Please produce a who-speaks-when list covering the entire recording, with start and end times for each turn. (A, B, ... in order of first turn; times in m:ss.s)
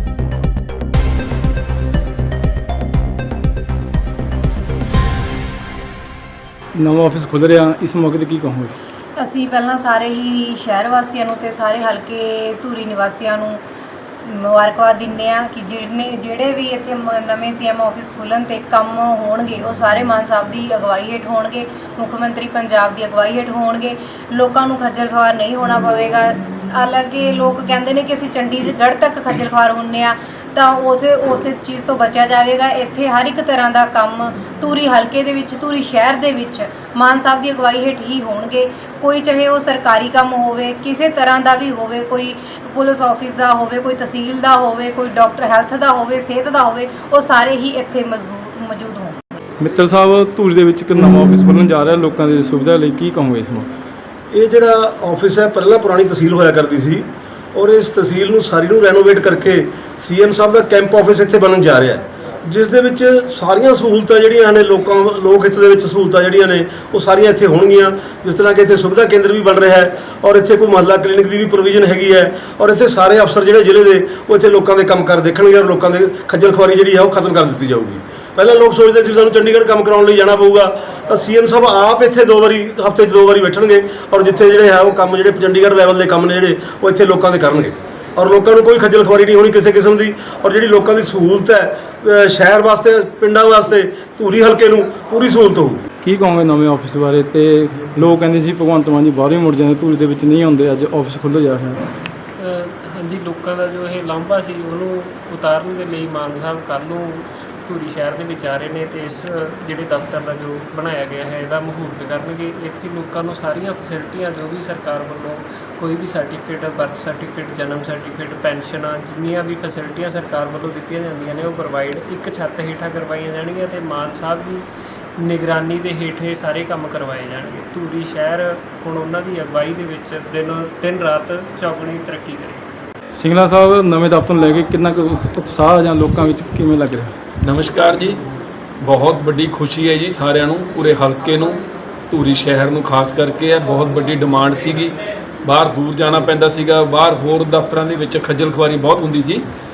0:06.7-0:08.7 A
0:09.2-0:13.6 B
0:14.2-0:49.1 B
0:49.6-0:53.7 A
0:54.3-1:35.8 C
1:36.0-1:41.8 A
1:42.4-2:04.6 D
2:05.2-2:12.6 D
2:13.1-2:17.1 A
2:17.4-2:18.2 E
2:18.8-2:29.4 E